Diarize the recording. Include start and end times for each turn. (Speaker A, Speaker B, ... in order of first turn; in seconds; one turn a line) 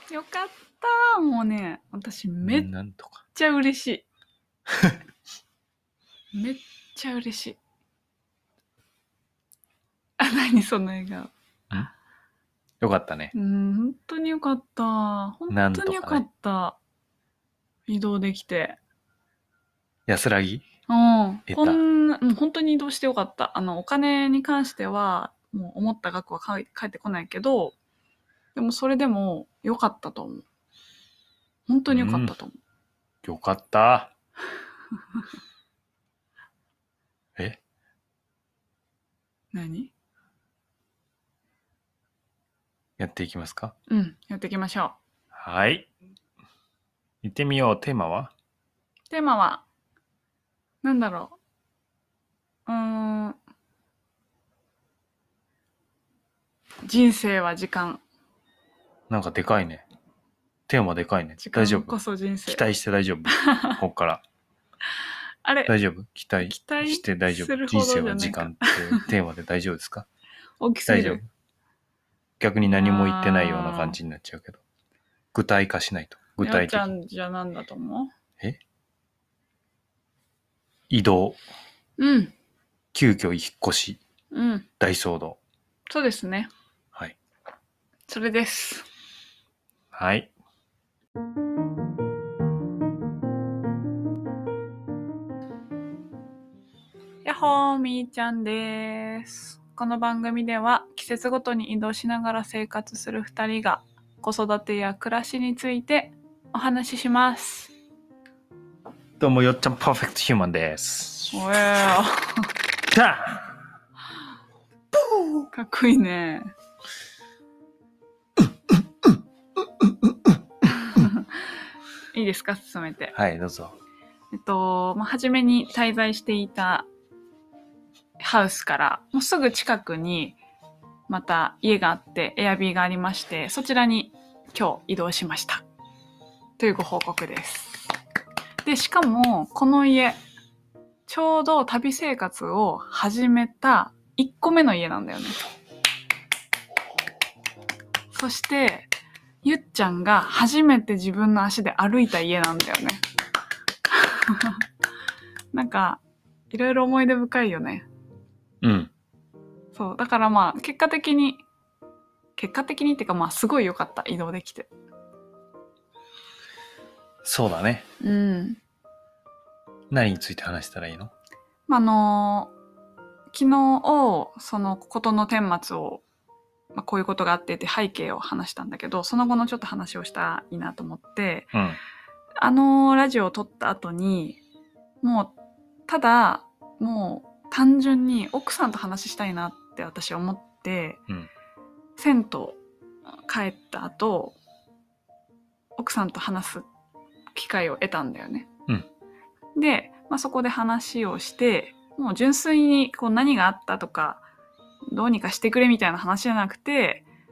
Speaker A: 0.1-2.7
Speaker B: 2.4-3.2
Speaker A: 3.3-4.0
Speaker B: 4.7-5.0
Speaker A: 6.3-7.6
Speaker A: 10.2-11.3
Speaker B: 12.8-13.3
Speaker A: 13.3-16.8
Speaker B: 15.5-16.2
Speaker A: 17.9-18.8
Speaker B: 20.1-20.6
Speaker A: 20.9-27.8
Speaker B: 21.5-21.8
Speaker A: 28.5-30.4
Speaker A: 31.7-32.6
Speaker B: 31.9-32.3
Speaker B: 33.2-34.1
Speaker A: 39.5-39.9
Speaker B: 43.0-43.7
Speaker A: 43.9-45.0
Speaker B: 45.3-45.9
Speaker B: 47.2-48.3
Speaker A: 49.1-49.6
Speaker A: 50.8-51.4
Speaker A: 52.7-53.4
Speaker A: 56.9-58.0
Speaker B: 59.1-59.8
Speaker B: 60.7-61.9
Speaker A: 61.4-62.6
Speaker B: 62.5-64.2
Speaker A: 63.3-63.8
Speaker A: 65.4-65.7
Speaker B: 65.7-70.0
Speaker A: 66.4-69.1
Speaker A: 70.6-71.2
Speaker B: 70.9-71.2
Speaker B: 72.4-74.6
Speaker A: 72.6-74.0
Speaker B: 75.3-76.9
Speaker A: 76.4-78.1
Speaker B: 80.9-81.4
Speaker A: 82.0-82.3
Speaker B: 82.9-84.0
Speaker A: 84.3-84.7
Speaker B: 84.8-85.4
Speaker A: 85.9-86.5
Speaker A: 88.1-88.9
Speaker B: 89.9-90.3
Speaker A: 97.2-107.7
Speaker B: 109.2-111.6
Speaker A: 111.3-112.5
Speaker B: 112.8-113.5
Speaker A: 115.5-116.5
Speaker B: 118.7-119.2
Speaker B: 119.8-120.4
Speaker A: 120.7-121.3
Speaker A: 122.1-123.1
Speaker B: 123.1-123.8
Speaker A: 124.3-126.9
Speaker A: 128.2-130.4
Speaker A: 131.1-135.6
Speaker A: 136.6-137.8
Speaker A: 138.6-140.2
Speaker A: 141.1-145.4
Speaker A: 148.1-148.9
Speaker A: 149.4-153.0
Speaker A: 153.9-154.6
Speaker A: 155.5-157.8
Speaker B: 158.6-158.9
Speaker A: 159.7-161.4
Speaker A: 162.4-164.7
Speaker B: 167.2-167.8
Speaker A: 168.0-168.6
Speaker B: 169.9-171.1
Speaker A: 171.7-172.5
Speaker A: 173.3-176.0
Speaker A: 176.7-181.5
Speaker B: 181.5-181.8
Speaker A: 182.4-184.4
Speaker A: 185.0-185.3
Speaker A: 185.9-191.0
Speaker A: 192.0-192.6
Speaker A: 193.3-194.3
Speaker A: 195.8-196.7
Speaker A: 197.3-198.5
Speaker A: 199.6-204.2
Speaker A: 204.9-207.1